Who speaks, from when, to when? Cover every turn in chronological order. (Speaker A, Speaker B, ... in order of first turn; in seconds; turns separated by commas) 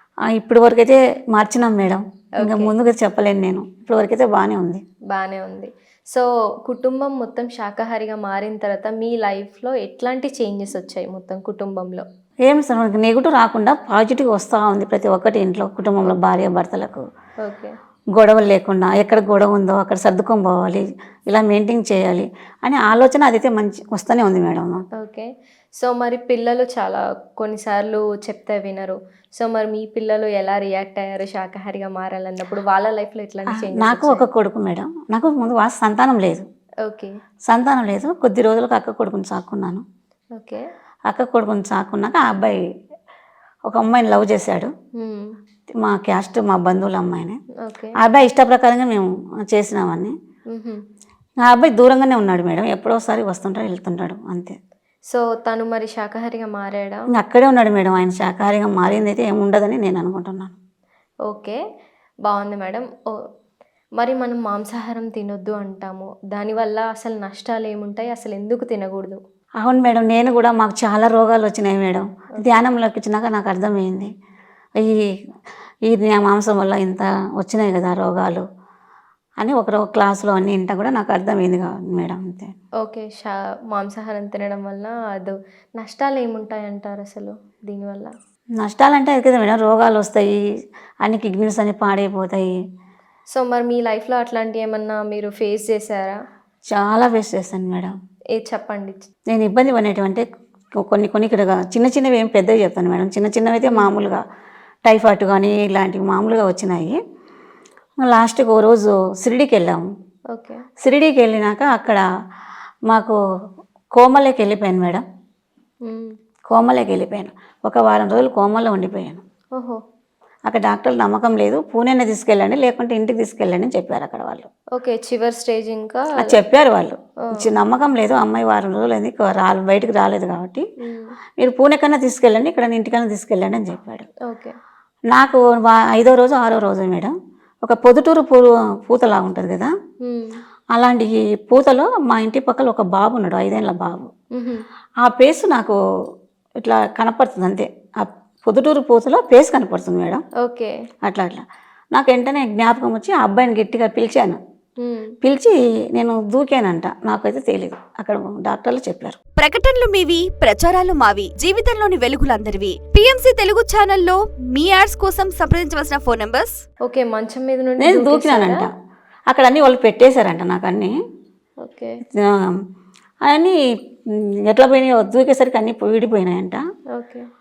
Speaker A: 0.3-4.8, Speaker B: 2.4-2.7, Speaker B: 5.1-12.1, Speaker A: 12.4-17.1, Speaker B: 17.4-17.8, Speaker A: 18.1-24.9, Speaker B: 25.0-34.2, Speaker A: 33.5-36.5, Speaker B: 36.9-37.1, Speaker A: 37.5-39.8, Speaker B: 40.4-40.6, Speaker A: 41.1-42.6, Speaker A: 43.7-44.7, Speaker B: 45.0-45.3, Speaker A: 45.7-47.4, Speaker B: 47.6-48.0, Speaker A: 48.0-50.1, Speaker B: 50.5-50.8, Speaker A: 51.5-54.6, Speaker B: 55.1-57.1, Speaker A: 57.1-60.5, Speaker B: 61.3-61.6, Speaker B: 62.3-63.2, Speaker B: 64.0-69.2, Speaker A: 69.6-74.1, Speaker A: 74.8-75.1, Speaker A: 75.9-78.5, Speaker A: 79.4-82.5, Speaker B: 82.8-88.1, Speaker A: 88.6-90.4, Speaker A: 91.0-92.5, Speaker B: 93.3-96.2, Speaker A: 96.7-97.9, Speaker B: 98.4-99.1, Speaker A: 99.3-100.2, Speaker A: 100.8-104.2, Speaker A: 104.8-107.0, Speaker A: 108.0-109.8, Speaker B: 110.3-110.6, Speaker A: 110.8-112.0, Speaker A: 112.9-113.2, Speaker A: 114.0-115.0, Speaker B: 115.8-116.1, Speaker A: 116.5-119.2, Speaker A: 120.5-124.5, Speaker B: 124.8-126.3, Speaker A: 126.2-130.7, Speaker B: 130.8-131.2, Speaker A: 131.4-134.1, Speaker B: 134.3-134.6, Speaker A: 135.1-139.7, Speaker B: 140.0-140.3, Speaker A: 140.7-144.1, Speaker B: 144.3-144.7, Speaker A: 145.0-145.8, Speaker A: 146.6-150.2, Speaker B: 150.4-150.7, Speaker A: 151.0-154.4, Speaker B: 154.8-155.2, Speaker A: 155.2-159.2, Speaker C: 159.4-166.6, Speaker B: 166.9-168.7, Speaker A: 167.8-168.7, Speaker A: 169.3-170.9, Speaker B: 171.6-172.0, Speaker A: 172.1-172.6, Speaker A: 173.2-173.6, Speaker A: 174.1-176.6, Speaker B: 177.0-177.3